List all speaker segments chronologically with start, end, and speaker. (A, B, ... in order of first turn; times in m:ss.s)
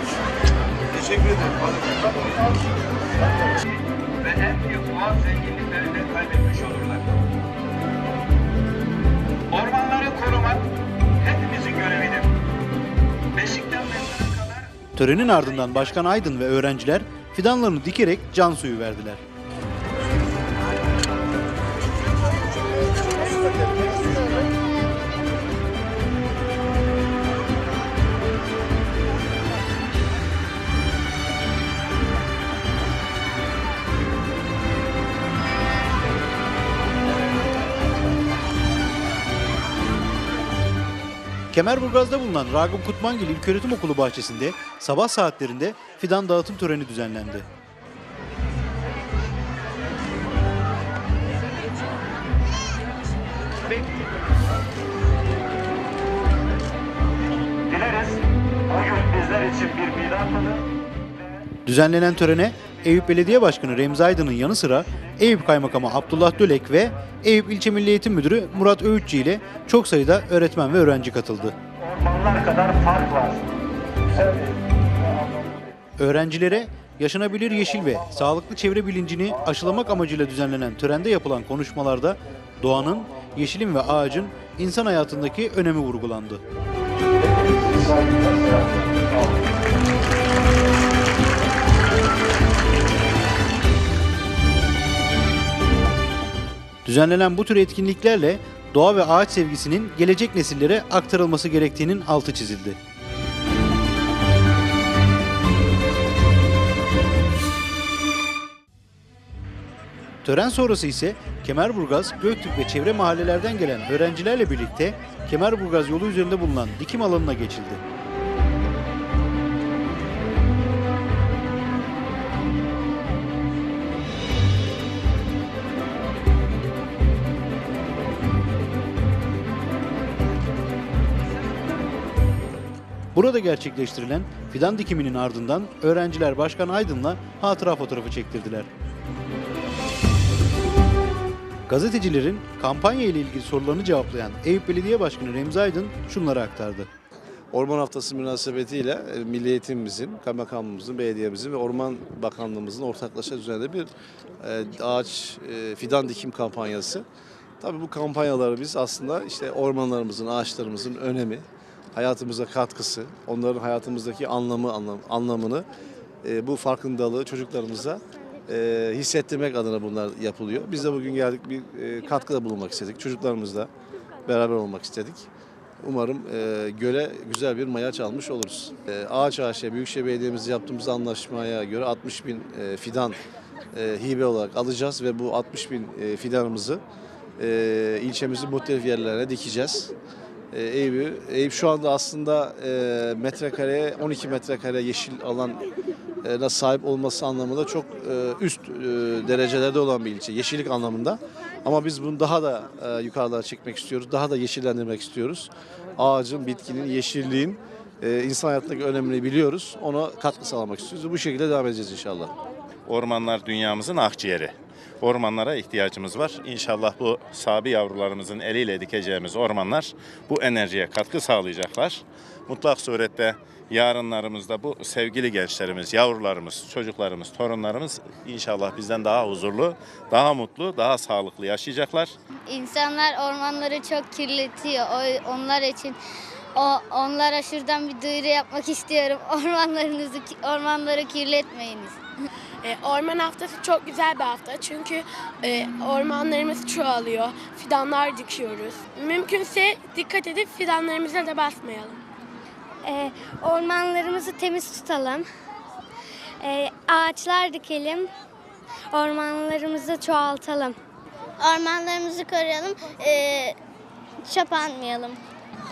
0:04.2-0:07.0 A
0:09.5-0:10.6 A
0:11.2-0:12.3 A
0:13.4-0:14.6 A
0:14.9-0:19.2 B
0:41.5-0:47.5 B
1:01.6-1:11.6 B
1:16.0-1:26.4 B
1:27.4-1:28.6 C
1:36.8-1:42.8 B
1:50.2-1:57.8 B
2:13.1-2:18.7 B
2:21.7-2:26.9 B
2:27.5-2:37.0 C
2:37.6-2:45.7 C
2:46.2-2:53.7 C
2:54.2-2:55.3 C
2:55.8-3:03.2 C
3:03.7-3:06.8 C
3:07.4-3:09.9 C
3:10.5-3:15.7 C
3:16.2-3:32.3 C
3:32.8-3:52.1 D
3:52.5-3:56.0 E
3:56.5-4:02.0 E
4:02.6-4:12.0 F
4:12.8-4:15.2 G
4:16.4-4:18.1 G
4:18.9-4:20.8 G
4:21.4-4:23.6 E
4:24.2-4:25.2 E